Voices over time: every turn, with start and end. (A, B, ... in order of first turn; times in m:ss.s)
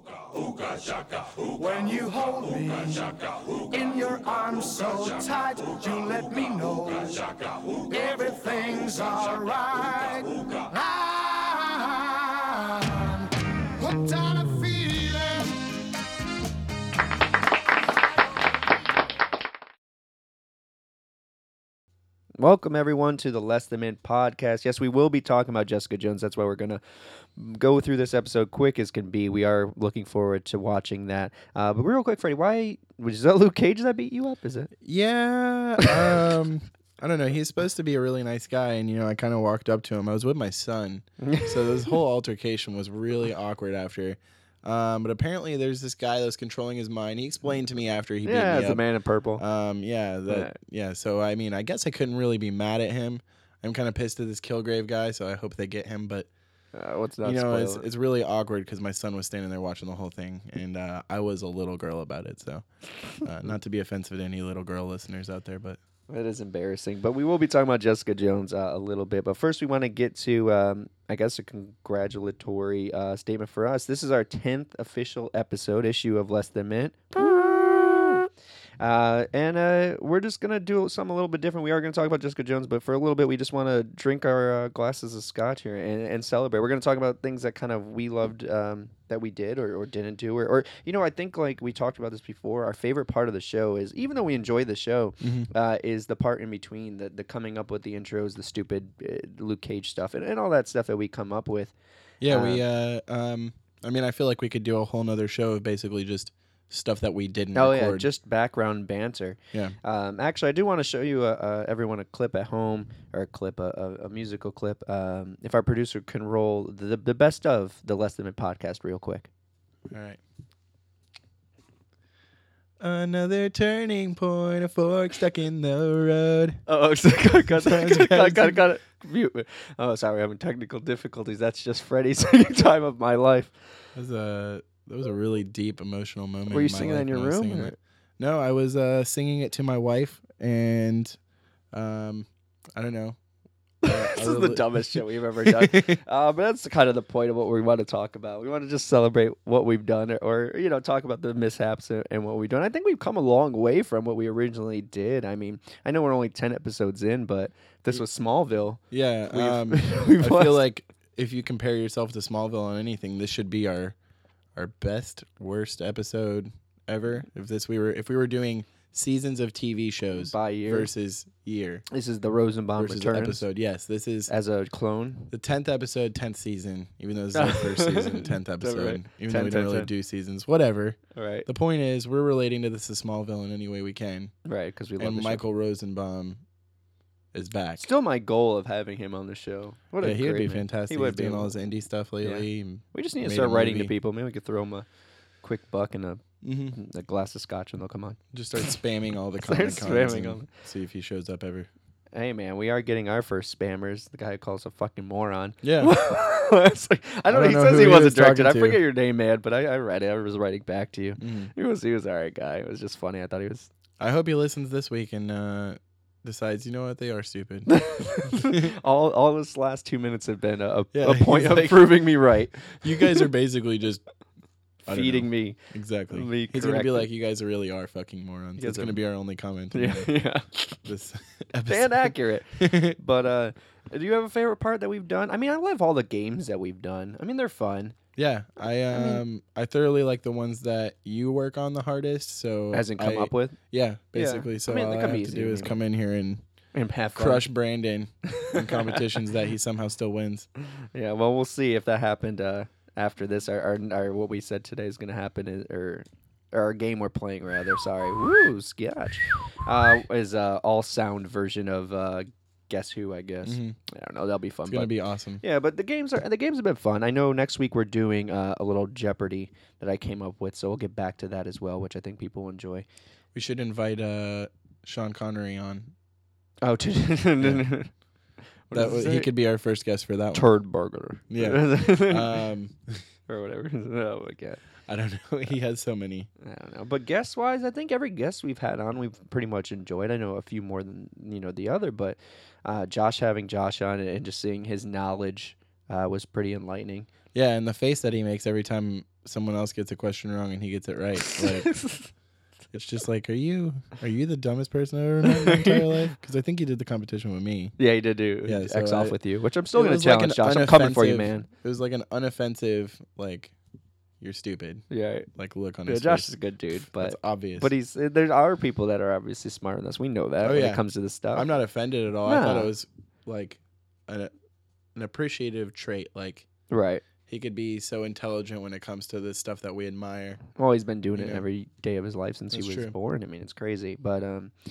0:00.3-0:15.7 A
0:22.4-0:34.7 B
0:34.8-0:48.8 C
0:41.2-0:42.0 B
0:48.2-0:49.4 B
0:49.4-0:56.3 C
0:50.3-0:50.6 B
0:56.7-0:57.8 B
0:57.2-1:02.6 C
1:03.2-1:05.8 C
1:06.1-1:18.3 B
1:18.8-1:41.7 B
1:35.2-1:35.5 C
1:42.2-1:48.1 C
1:42.3-1:42.6 B
1:47.6-1:59.3 B
1:59.9-2:00.2 C
2:02.8-2:06.6 C
2:06.7-2:13.7 B
2:07.4-2:08.6 C
2:14.0-2:21.2 C
2:16.5-2:17.8 B
2:21.7-2:23.2 C
2:23.8-2:40.6 B
2:23.8-2:26.0 C
2:38.9-2:44.0 C
2:44.6-2:51.8 C
2:50.2-2:50.9 B
2:51.9-2:53.4 B
2:52.8-2:54.3 C
2:54.3-2:55.3 B
2:55.3-3:04.3 C
2:57.3-2:59.9 B
3:01.2-3:01.5 B
3:04.4-3:05.4 B
3:05.0-3:06.4 C
3:07.3-3:07.8 C
3:07.8-3:11.5 B
3:10.0-3:13.9 C
3:12.2-3:14.9 B
3:15.4-3:18.7 B
3:16.4-3:16.8 C
3:18.3-3:21.7 C
3:19.4-3:20.5 B
3:22.1-3:33.7 B
3:25.6-3:25.9 C
3:27.3-3:28.8 C
3:31.2-3:31.5 C
3:34.0-3:37.7 C
3:37.7-3:43.2 B
3:38.2-3:38.7 C
3:40.9-3:42.0 C
3:42.8-3:44.0 C
3:44.8-3:45.6 B
3:44.9-3:50.1 C
3:46.1-3:47.1 B
3:48.6-3:49.0 B
3:49.7-3:50.8 B
3:50.8-3:53.0 C
3:51.7-3:58.0 B
3:58.2-4:06.4 C
3:58.9-3:59.2 B
4:02.7-4:03.6 B
4:04.1-4:05.8 B
4:06.7-4:07.5 B
4:07.2-4:10.5 C
4:08.3-4:09.0 B
4:10.9-4:32.8 B
4:23.4-4:23.8 C
4:24.7-4:25.4 C
4:33.3-4:35.9 C
4:36.6-4:37.9 B
4:37.4-4:37.6 C
4:38.7-4:39.3 B
4:38.7-4:40.5 C
4:40.3-4:42.4 B
4:41.3-4:43.0 C
4:43.3-4:44.6 B
4:44.9-4:46.3 C
4:46.4-4:57.1 B
4:57.3-5:01.8 C
5:01.2-5:02.1 B
5:02.7-5:07.8 C
5:05.2-5:06.1 B
5:07.8-5:11.5 B
5:08.4-5:09.2 C
5:09.7-5:13.5 C
5:14.2-5:14.8 C
5:14.9-5:15.3 B
5:15.4-5:16.3 C
5:15.9-5:21.5 B
5:16.9-5:17.7 C
5:20.4-5:20.8 C
5:21.3-5:24.3 C
5:22.3-5:22.7 B
5:25.0-5:26.5 C
5:26.7-5:27.0 B
5:27.3-5:30.4 C
5:30.6-5:34.5 B
5:31.1-5:31.4 C
5:32.5-5:32.9 C